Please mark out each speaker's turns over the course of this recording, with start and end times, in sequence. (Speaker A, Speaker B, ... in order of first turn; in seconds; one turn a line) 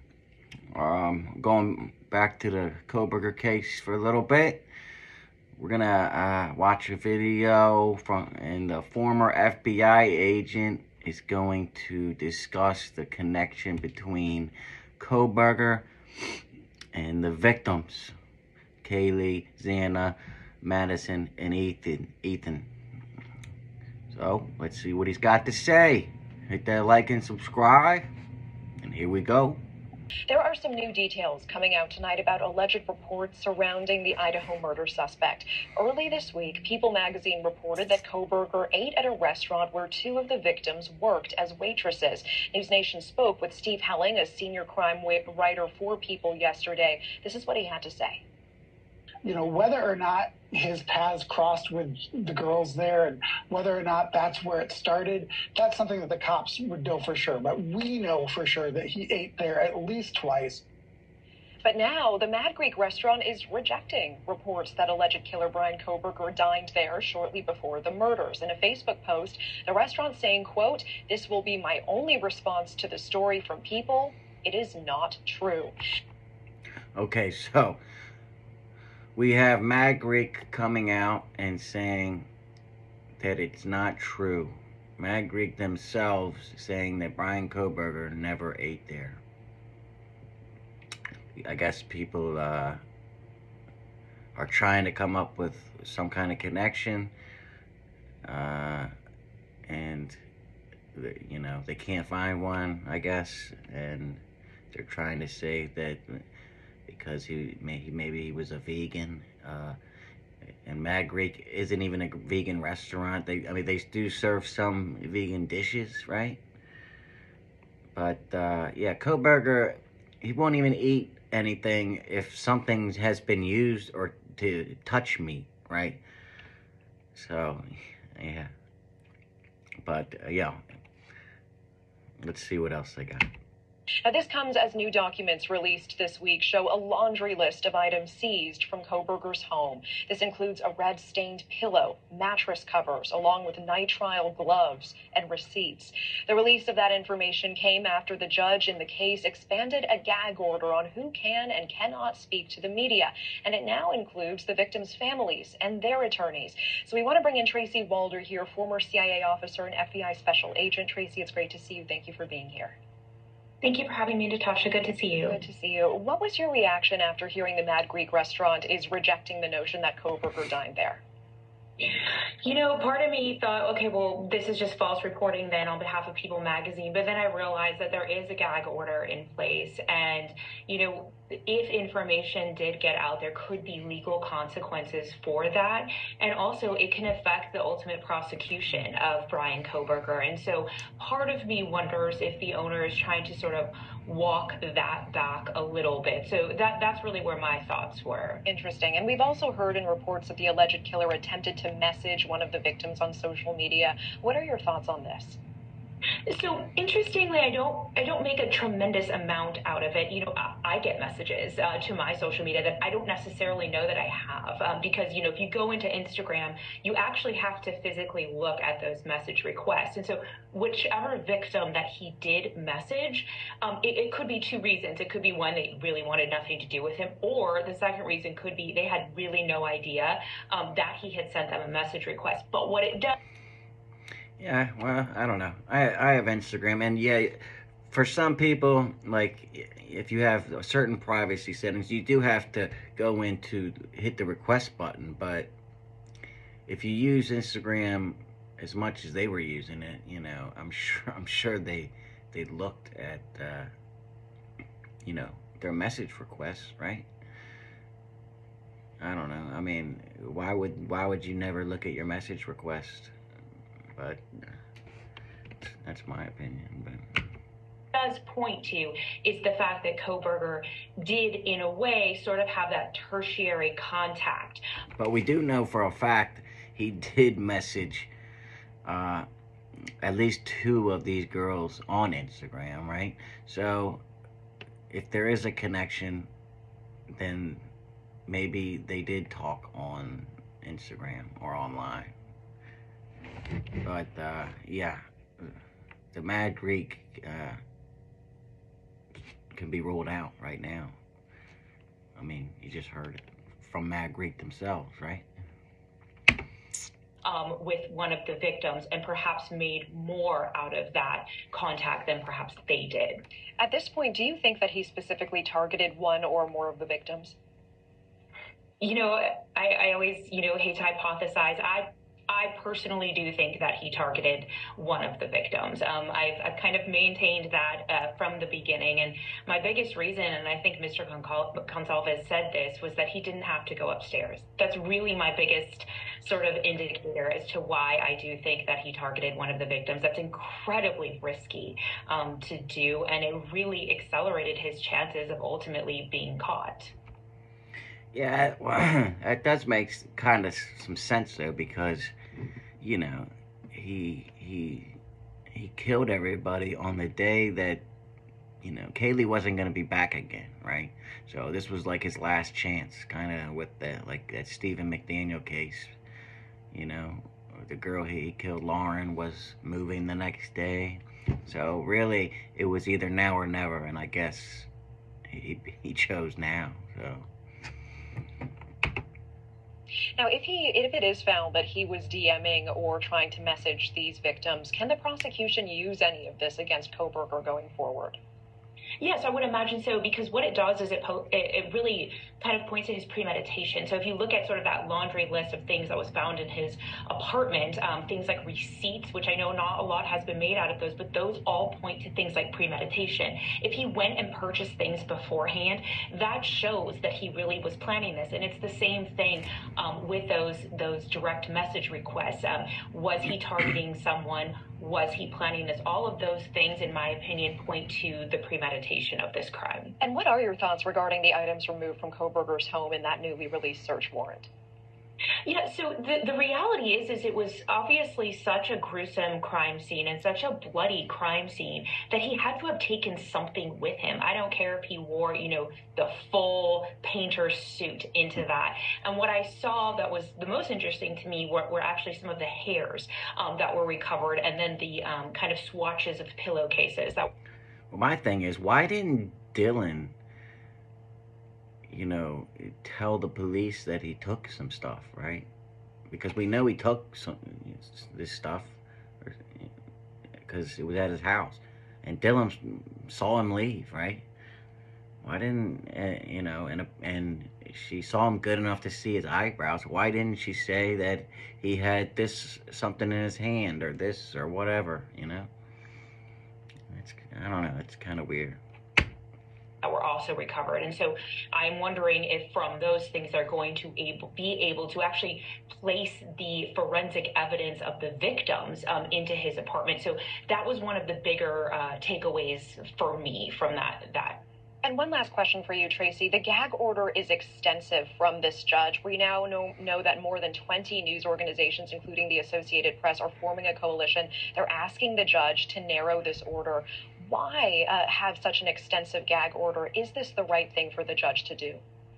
Speaker A: 0.7-4.7
Speaker A: 5.5-15.8
Speaker A: 16.9-18.1
Speaker A: 18.8-22.7
Speaker A: 24.1-28.1
Speaker A: 28.8-29.6
Speaker B: 30.3-48.2
Speaker C: 49.2-60.6
Speaker B: 61.6-75.7
Speaker A: 77.0-77.8
Speaker A: 79.2-82.3
Speaker A: 83.2-89.2
Speaker A: 91.4-92.8
Speaker A: 94.3-97.1
Speaker A: 98.2-98.9
Speaker A: 99.7-100.2
Speaker A: 100.9-106.2
Speaker A: 106.9-109.8
Speaker A: 110.6-116.4
Speaker A: 117.9-126.0
Speaker A: 127.1-128.5
Speaker A: 129.8-130.6
Speaker A: 132.2-133.3
Speaker B: 134.0-162.8
Speaker D: 163.6-165.4
Speaker B: 165.2-171.0
Speaker D: 171.8-198.4
Speaker B: 198.4-205.4
Speaker D: 206.3-233.1
Speaker A: 234.4-237.4
Speaker A: 237.9-245.5
Speaker A: 246.7-253.7
Speaker A: 255.0-257.1
Speaker A: 259.0-263.1
Speaker A: 263.9-264.2
Speaker A: 265.8-267.0
Speaker D: 267.9-274.6
Speaker A: 275.0-278.1
Speaker A: 278.8-279.2
Speaker A: 280.0-284.0
Speaker A: 284.9-286.3
Speaker A: 287.1-287.7
Speaker A: 288.3-292.1
Speaker A: 293.8-295.5
Speaker A: 296.1-297.6
Speaker A: 299.5-300.9
Speaker A: 302.2-305.2
Speaker D: 307.2-313.2
Speaker B: 313.6-317.4
Speaker D: 318.8-346.9
Speaker A: 348.1-352.1
Speaker A: 352.8-354.9
Speaker A: 355.5-357.8
Speaker A: 358.6-365.9
Speaker A: 366.7-374.7
Speaker A: 375.3-377.3
Speaker B: 380.2-388.2
Speaker D: 389.0-419.9
Speaker B: 420.0-424.5
Speaker D: 425.4-447.3
Speaker A: 447.9-450.1
Speaker A: 451.9-455.5
Speaker A: 456.1-459.7
Speaker A: 460.4-464.2
Speaker A: 465.2-475.5
Speaker A: 476.9-478.6
Speaker D: 479.8-494.4
Speaker B: 494.8-511.8